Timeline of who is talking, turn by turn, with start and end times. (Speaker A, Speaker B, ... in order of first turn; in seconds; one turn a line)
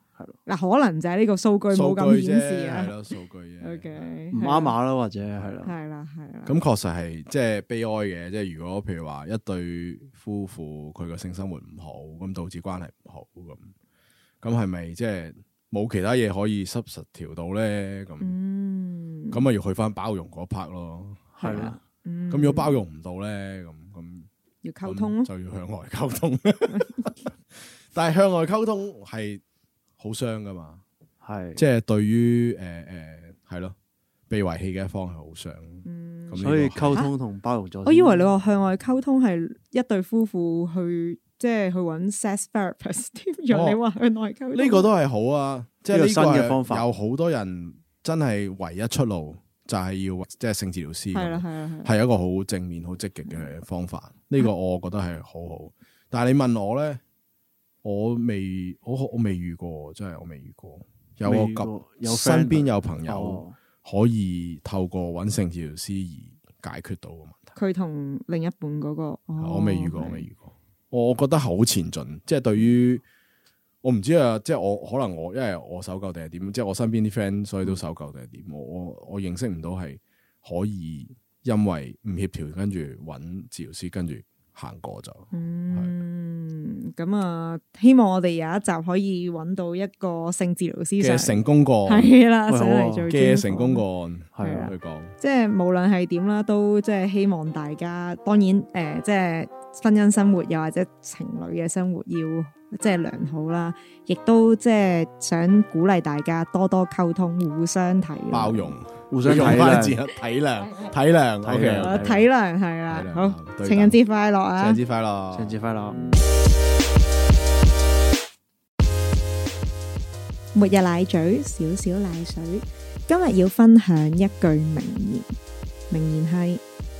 Speaker A: 0.5-3.0
Speaker B: 1.7-4.1
Speaker A: 3.6-4.8
Speaker C: 4.3-5.7
Speaker A: 5.6-6.6
Speaker B: 6.5-13.7
Speaker B: 14.4-18.3
Speaker A: 18.2-19.5
Speaker B: 19.3-21.8
Speaker A: 21.4-22.8
Speaker C: 21.4-21.8
Speaker B: 22.3-24.3
Speaker A: 24.6-25.3
Speaker B: 24.8-27.3
Speaker B: 27.9-29.4
Speaker B: 30.0-30.8
Speaker C: 31.2-31.6
Speaker B: 31.6-33.7
Speaker B: 34.3-37.0
Speaker A: 35.8-37.1
Speaker C: 36.4-38.3
Speaker A: 37.8-44.9
Speaker B: 43.5-43.8
Speaker B: 44.5-57.0
Speaker C: 45.9-46.9
Speaker A: 51.1-51.9
Speaker B: 57.8-67.5
Speaker C: 61.2-63.6
Speaker A: 67.5-70.3
Speaker B: 69.4-73.0
Speaker B: 73.8-85.9
Speaker A: 85.3-93.8
Speaker B: 91.0-92.1
Speaker C: 92.5-93.1
Speaker B: 93.1-95.2
Speaker C: 94.3-94.7
Speaker A: 94.4-108.8
Speaker B: 108.3-112.0
Speaker C: 109.1-110.0
Speaker C: 111.4-112.3
Speaker A: 111.8-114.8
Speaker B: 112.9-114.0
Speaker B: 114.6-115.6
Speaker C: 115.3-116.0
Speaker A: 120.5-125.3
Speaker A: 125.9-126.6